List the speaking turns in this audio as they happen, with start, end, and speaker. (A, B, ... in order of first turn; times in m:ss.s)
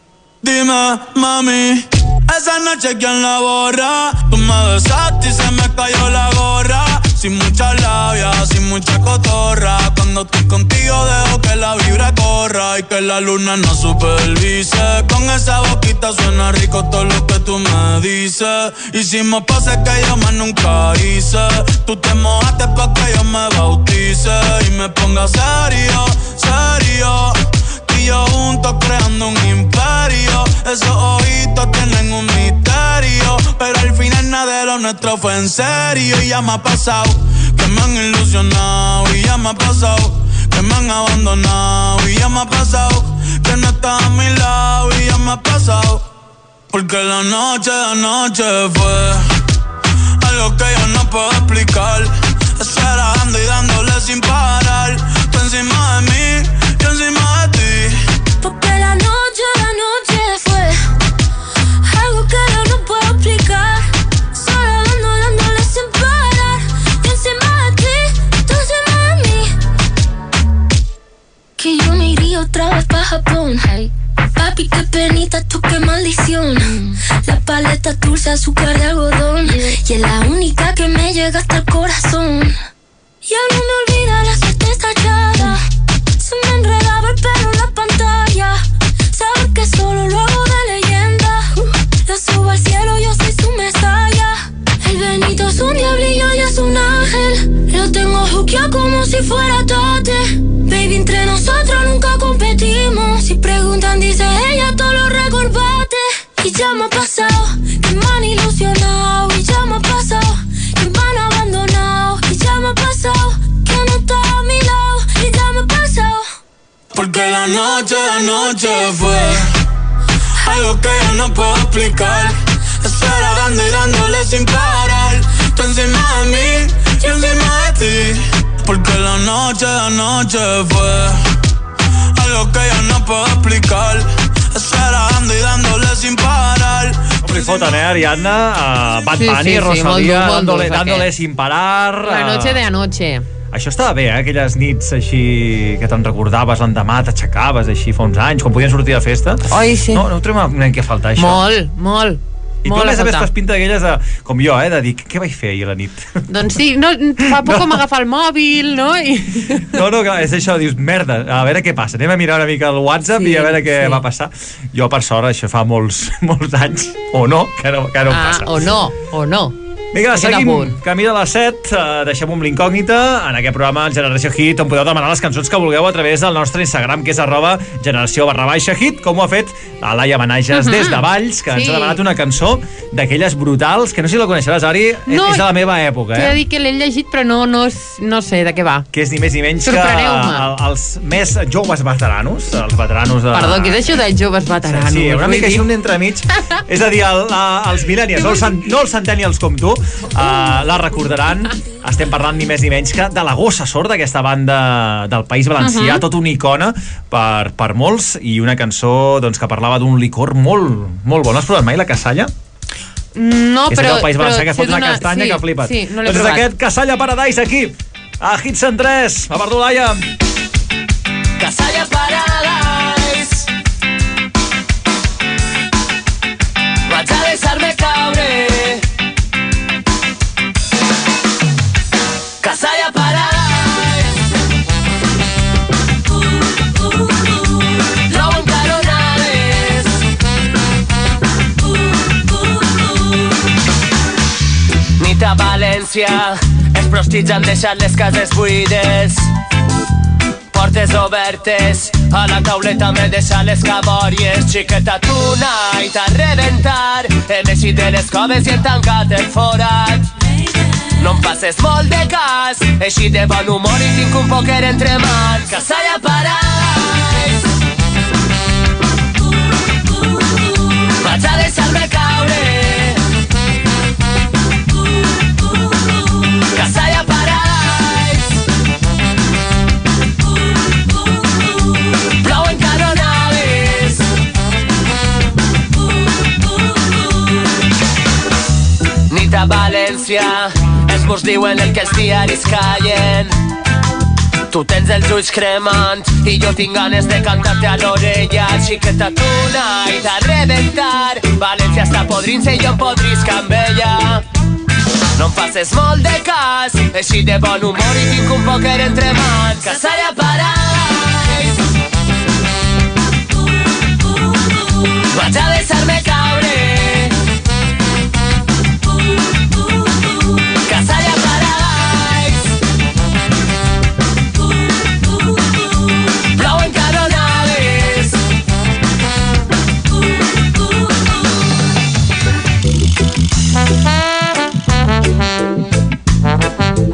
0:00.4-0:46.0 A
0:46.7-0:49.2 A
0:50.2-0:58.0 A
0:58.4-1:00.8 B
1:01.8-1:09.5 B
1:11.6-1:22.6 B
1:23.2-1:25.6 B
1:26.2-1:28.6 B
1:29.1-1:56.3 B
1:56.9-1:59.5 A
2:00.4-2:11.2 A
2:12.2-2:17.8 A
2:17.2-2:22.6 C
2:19.2-2:21.1 D
2:22.0-2:23.2 D
2:23.5-2:31.5 C
2:29.5-2:30.0 D
2:31.2-2:33.3 D
2:32.6-2:36.1 C
2:36.3-2:39.7 D
2:37.4-2:37.8 C
2:39.6-2:48.7 C
2:43.2-2:44.0 D
2:48.1-2:49.6 D
2:49.9-3:06.4 C
2:50.1-2:50.8 D
3:00.5-3:02.0 D
3:05.1-3:05.5 D
3:06.1-3:08.9 D
3:08.9-3:13.8 C
3:09.6-3:10.4 D
3:13.3-3:15.7 D
3:14.6-3:32.3 C
3:18.1-3:18.6 D
3:25.6-3:26.0 D
3:33.2-3:36.4 D
3:33.7-3:40.0 C
3:41.4-3:43.3 E
3:46.9-3:48.8 E
3:52.4-3:54.0 E
3:58.1-3:59.6 E
4:05.0-4:09.1 E
4:10.5-4:20.0 E
4:21.0-4:26.6 E
4:31.0-4:32.8 E
4:36.6-4:38.1 E
4:42.3-4:43.8 E
4:49.1-4:53.3 E
4:54.5-5:04.2 E
5:05.2-5:10.7 E
5:15.1-5:17.0 E
5:20.7-5:22.3 E
5:26.4-5:28.0 E